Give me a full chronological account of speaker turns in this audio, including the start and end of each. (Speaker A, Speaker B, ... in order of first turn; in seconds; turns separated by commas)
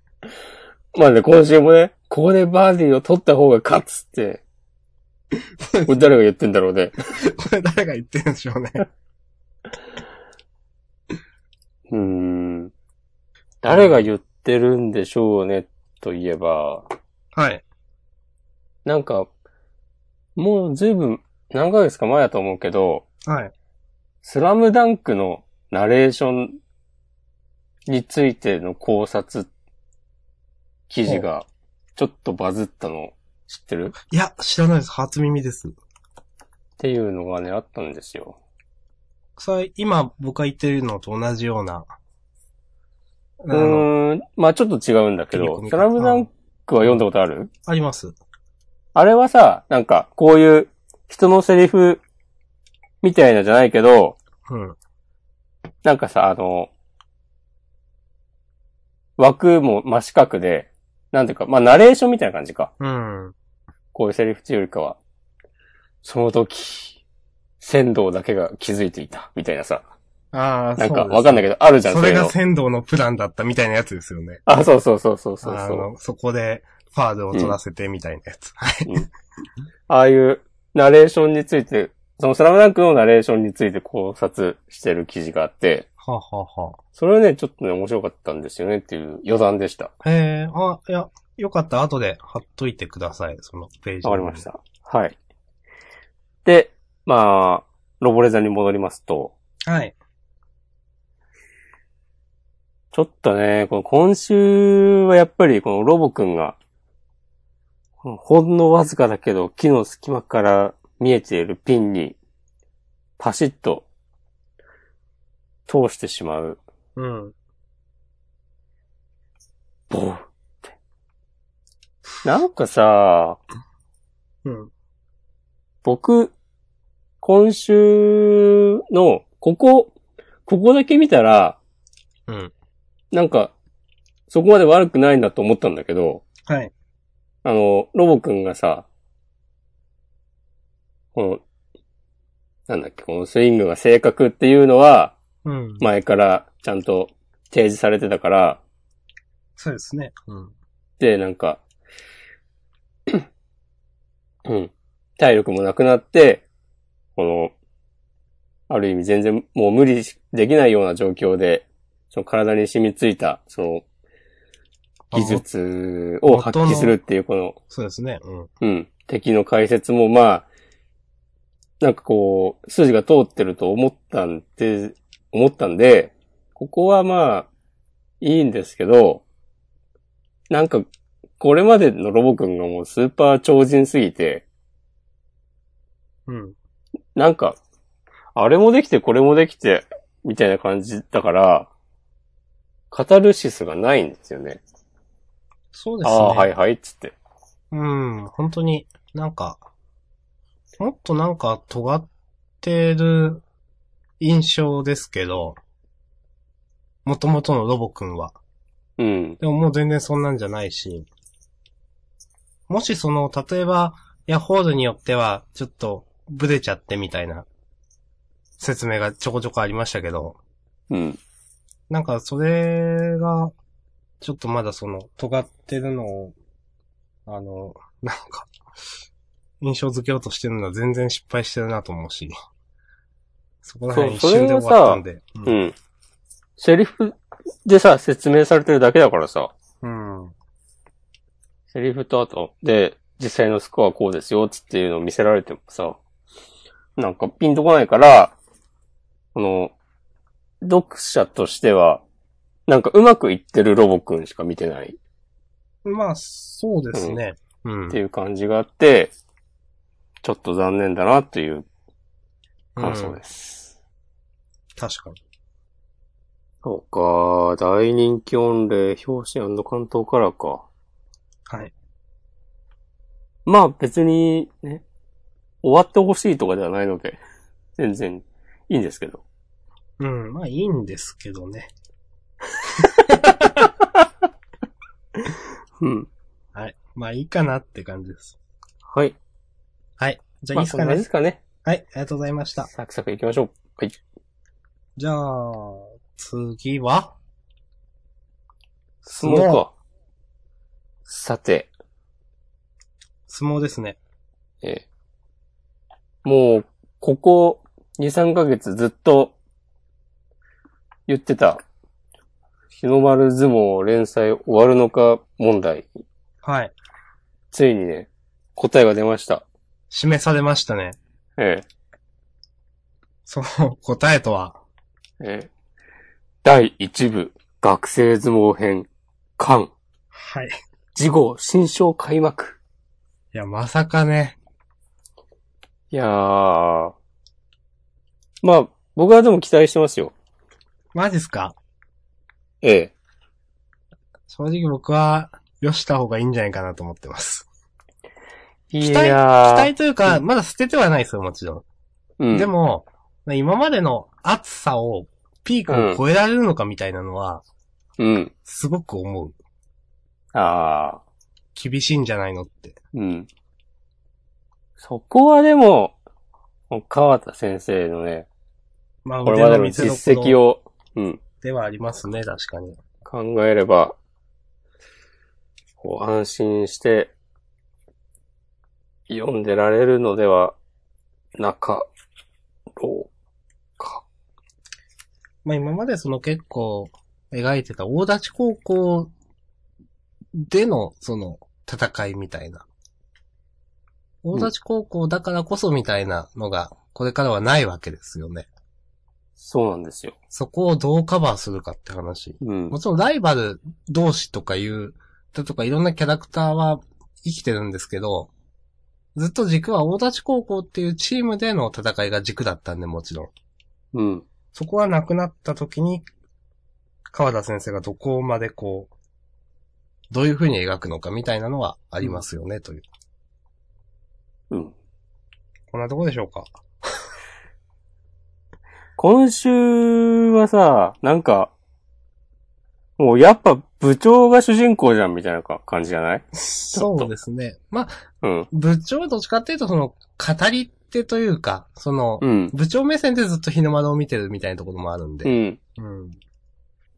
Speaker A: 0.9-4.4, Speaker B: 5.6-6.1, Speaker A: 5.8-6.9, Speaker B: 7.2-8.8, Speaker A: 11.9-12.7, Speaker A: 13.6-16.9, Speaker B: 13.7-14.0, Speaker B: 17.3-17.6, Speaker A: 18.8-19.3, Speaker A: 20.4-23.0, Speaker B: 23.2-23.5, Speaker A: 24.2-26.5, Speaker A: 27.9-29.5, Speaker A: 30.9-33.9, Speaker B: 34.1-35.8, Speaker A: 36.8-38.4, Speaker B: 39.4-41.9, Speaker B: 43.4-43.9, Speaker A: 43.5-47.5, Speaker B: 45.3-46.3, Speaker B: 47.6-48.1, Speaker A: 48.9-52.0, Speaker A: 53.0-54.2, Speaker B: 54.5-54.8, Speaker A: 55.8-56.7, Speaker A: 59.2-62.7, Speaker B: 62.8-63.3, Speaker A: 63.9-65.0, Speaker A: 66.0-67.0, Speaker A: 67.6-69.8, Speaker B: 70.3-74.4, Speaker A: 70.8-72.3, Speaker A: 74.5-75.9, Speaker B: 75.4-79.0, Speaker A: 79.9-85.9, Speaker B: 86.0-86.8, Speaker A: 87.0-89.9, Speaker B: 90.0-94.5, Speaker A: 94.0-95.2, Speaker A: 96.4-99.3, Speaker B: 99.7-99.9, Speaker A: 102.9-106.6, Speaker A: 108.0-112.2, Speaker A: 113.2-113.8, Speaker A: 115.7-116.6, Speaker B: 117.0-117.3, Speaker A: 119.9-120.3, Speaker A: 122.2-123.4, Speaker B: 124.4-124.7, Speaker A: 125.8-126.3, Speaker A: 127.2-129.9, Speaker A: 130.5-131.6, Speaker B: 132.3-132.5, Speaker A: 133.1-133.5, Speaker A: 134.3-136.2, Speaker B: 136.5-136.7, Speaker A: 137.4-138.9, Speaker A: 141.1-141.4, Speaker A: 142.7-145.1, Speaker B: 145.4-145.9, Speaker A: 145.8-148.6, Speaker B: 149.6-150.5, Speaker A: 151.0-151.6, Speaker A: 154.4-156.4, Speaker A: 157.2-157.5, Speaker A: 158.7-163.8, Speaker B: 165.1-165.4, Speaker A: 165.1-167.6, Speaker B: 166.2-167.0, Speaker B: 167.7-168.5, Speaker A: 168.6-170.4, Speaker A: 171.8-177.5, Speaker A: 178.2-179.2, Speaker A: 180.5-180.8, Speaker A: 181.4-184.4, Speaker B: 186.3-186.6, Speaker A: 187.2-187.6, Speaker A: 188.3-191.7, Speaker A: 192.9-194.6, Speaker B: 195.7-196.5, Speaker A: 196.0-197.1, Speaker B: 197.7-199.6, Speaker B: 200.8-202.1, Speaker B: 202.6-203.4, Speaker B: 204.2-205.6, Speaker B: 207.0-208.3, Speaker A: 209.0-209.4, Speaker B: 209.4-211.1, Speaker B: 212.7-217.4, Speaker B: 218.6-220.4, Speaker A: 220.9-221.2, Speaker B: 221.9-223.5, Speaker B: 224.2-226.3, Speaker B: 227.2-228.5, Speaker B: 229.6-232.3, Speaker B: 233.6-235.6, Speaker A: 233.9-235.8, Speaker A: 236.6-239.5, Speaker B: 239.8-240.3, Speaker A: 241.7-246.0, Speaker A: 246.9-248.3, Speaker A: 249.3-249.7, Speaker A: 250.6-252.0, Speaker A: 252.7-255.0, Speaker B: 255.8-258.0, Speaker A: 256.9-257.2, Speaker A: 257.9-259.1, Speaker A: 260.2-261.7, Speaker B: 262.8-263.2, Speaker A: 262.8-263.7, Speaker B: 264.8-265.2, Speaker A: 266.6-270.6, Speaker B: 271.5-271.7, Speaker A: 273.4-274.8, Speaker A: 275.6-277.2, Speaker A: 277.8-279.2, Speaker B: 280.0-281.7, Speaker B: 282.8-283.7, Speaker A: 285.8-286.1, Speaker B: 286.5-288.4, Speaker A: 288.9-289.2, Speaker B: 290.0-291.1, Speaker A: 290.5-291.4, Speaker B: 291.6-292.7, Speaker A: 292.7-294.0, Speaker B: 295.0-297.1, Speaker A: 299.0-299.7, Speaker B: 299.2-299.6, Speaker A: 301.1-301.7, Speaker B: 303.3-304.0, Speaker A: 306.2-309.3, Speaker A: 311.1-311.6, Speaker A: 312.7-315.9, Speaker B: 316.4-316.7, Speaker A: 317.5-319.4, Speaker B: 319.9-321.0, Speaker A: 321.4-321.7, Speaker B: 323.2-324.6, Speaker A: 325.2-325.5, Speaker A: 326.4-329.7, Speaker B: 330.1-330.5, Speaker A: 330.9-332.6, Speaker B: 333.3-334.4, Speaker A: 335.9-336.9, Speaker A: 338.4-340.1, Speaker B: 340.9-341.6, Speaker A: 342.6-342.9, Speaker B: 344.3-347.5, Speaker A: 348.7-350.1, Speaker B: 348.8-351.6, Speaker A: 352.2-352.5, Speaker B: 352.3-357.4, Speaker A: 355.7-356.0, Speaker A: 358.0-358.3, Speaker B: 358.4-359.4, Speaker A: 360.3-361.0, Speaker B: 361.5-362.8, Speaker A: 362.9-363.3, Speaker A: 364.8-365.9, Speaker A: 366.7-368.3, Speaker B: 369.0-370.4, Speaker A: 369.2-371.2, Speaker B: 371.4-372.8, Speaker A: 373.0-373.9, Speaker A: 375.8-377.1, Speaker A: 379.1-380.6, Speaker A: 381.4-381.9, Speaker A: 382.8-383.1, Speaker A: 383.8-384.0, Speaker B: 385.4-389.1, Speaker B: 390.3-392.6, Speaker B: 394.2-398.5, Speaker A: 399.4-400.1, Speaker B: 400.3-408.3, Speaker A: 402.4-402.8, Speaker B: 409.1-413.3, Speaker A: 413.9-414.2, Speaker B: 414.5-416.1, Speaker B: 417.1-418.9, Speaker B: 420.1-422.8, Speaker B: 425.7-426.5, Speaker A: 429.0-431.5, Speaker A: 433.0-437.1, Speaker B: 436.4-446.2, Speaker A: 438.2-438.5, Speaker A: 442.2-442.5, Speaker A: 445.2-445.6